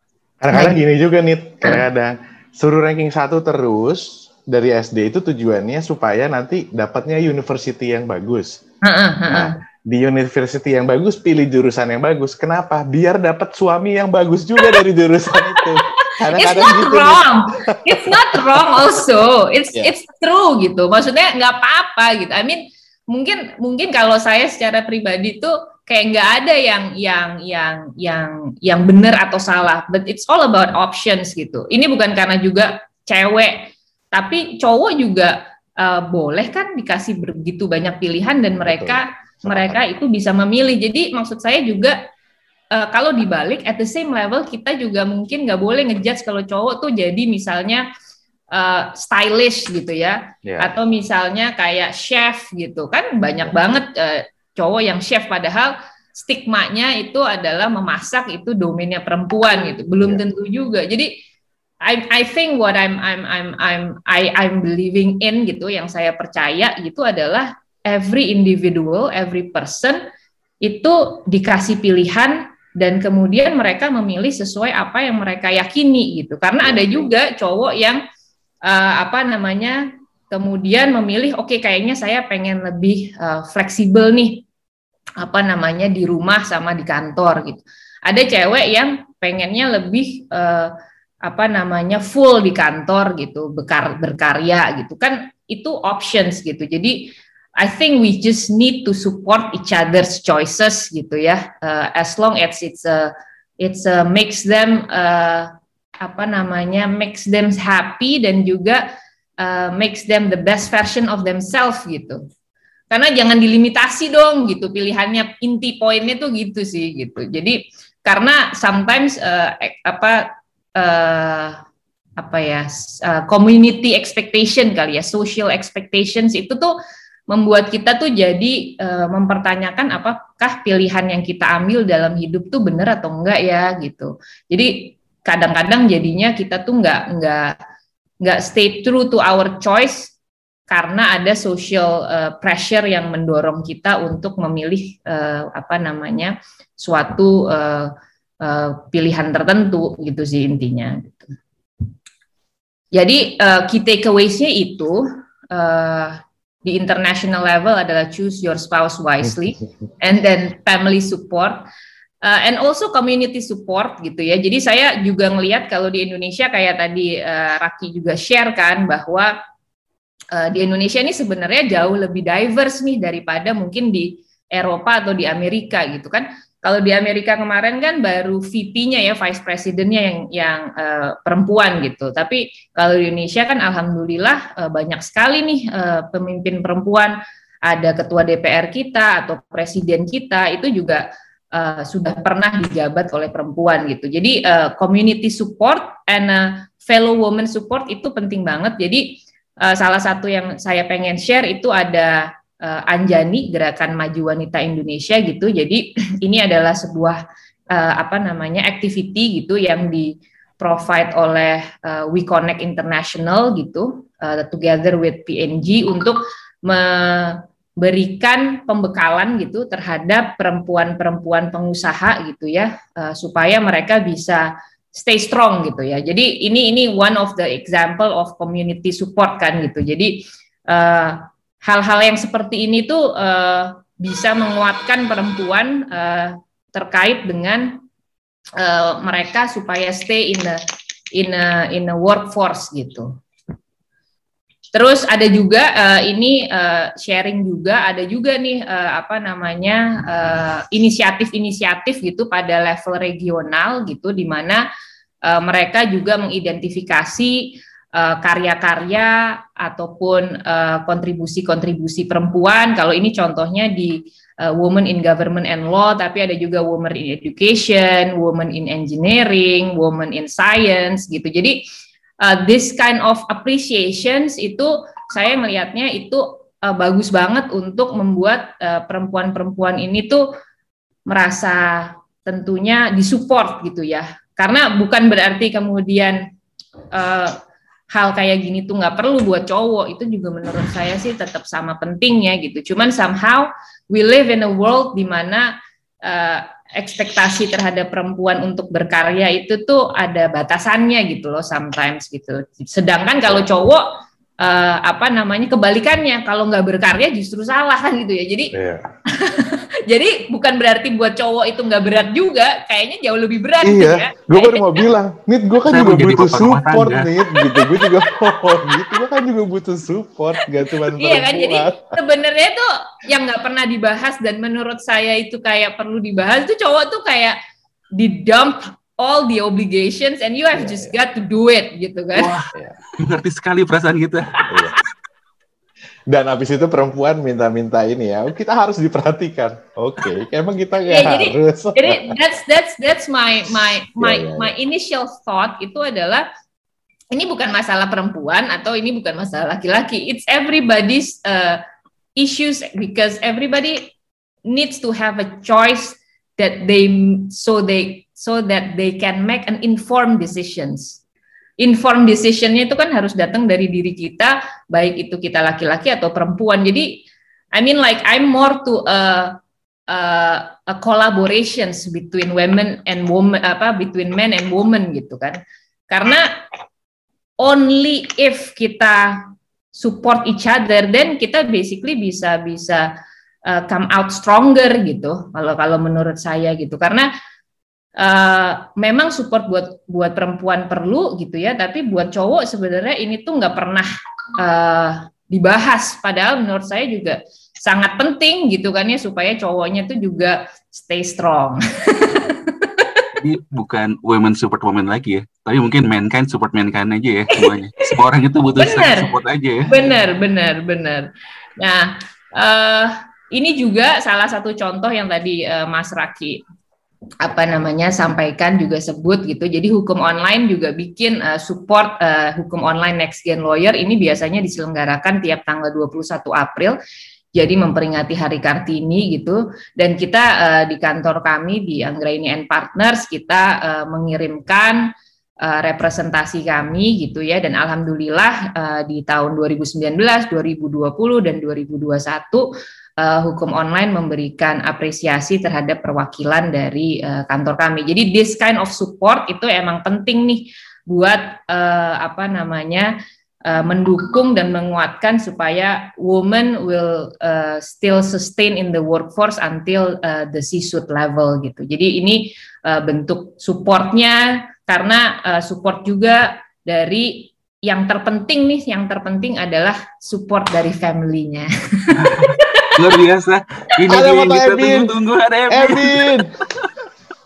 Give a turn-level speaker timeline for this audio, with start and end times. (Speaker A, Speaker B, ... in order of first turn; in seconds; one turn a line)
Speaker A: 0.4-8.6
Speaker B: 0.5-0.8
Speaker B: 8.8-9.6
Speaker A: 9.3-18.9
Speaker B: 15.6-42.0
Speaker A: 38.6-39.8
Speaker B: 42.7-47.9
Speaker B: 48.5-61.1
Speaker A: 50.5-50.7
Speaker B: 61.8-70.0
Speaker B: 70.6-78.0
Speaker A: 76.6-77.1
Speaker B: 78.7-84.5
Speaker B: 85.2-108.8
Speaker B: 109.4-112.2
Speaker B: 112.9-121.6
Speaker B: 122.2-126.7
Speaker B: 127.3-137.6
Speaker B: 138.2-140.1
Speaker B: 140.7-151.3
Speaker B: 152.9-161.6
Speaker B: 162.2-169.3
Speaker B: 170.3-237.8
Speaker B: 238.6-240.6
Speaker B: 241.2-243.1
Speaker B: 244.7-254.6
Speaker B: 255.3-271.6
Speaker B: 272.2-280.3
Speaker B: 281.1-286.2
Speaker B: 286.9-287.4
Speaker B: 287.9-295.5
Speaker B: 296.1-303.9
Speaker B: 304.4-308.6
Speaker A: 308.5-308.9
Speaker B: 309.1-314.9
Speaker A: 313.6-322.0
Speaker C: 315.7-317.1
Speaker B: 317.4-317.9
Speaker B: 318.4-319.0
Speaker B: 320.4-327.4
Speaker B: 328.0-332.3
Speaker A: 330.5-330.9
Speaker C: 332.1-334.4
Speaker A: 334.5-334.8
Speaker A: 336.1-342.2
Speaker B: 340.9-346.2
Speaker A: 343.6-344.5
Speaker B: 347.1-351.6
Speaker B: 352.2-353.9
Speaker B: 354.5-361.0
Speaker B: 361.6-367.0
Speaker B: 367.6-369.4
Speaker B: 369.9-375.4
Speaker B: 375.9-376.4
Speaker B: 377.4-382.9
Speaker B: 383.5-387.1
Speaker B: 388.0-393.9
Speaker B: 394.4-403.1
Speaker C: 403.2-409.7
Speaker B: 407.3-407.9
Speaker B: 408.6-409.1
Speaker B: 409.7-411.1
Speaker B: 411.6-416.4
Speaker B: 417.2-426.8
Speaker B: 427.4-434.9
Speaker B: 435.4-452.9
Speaker B: 453.5-472.8
Speaker C: 471.9-476.7
Speaker A: 473.9-475.0
Speaker A: 475.5-476.4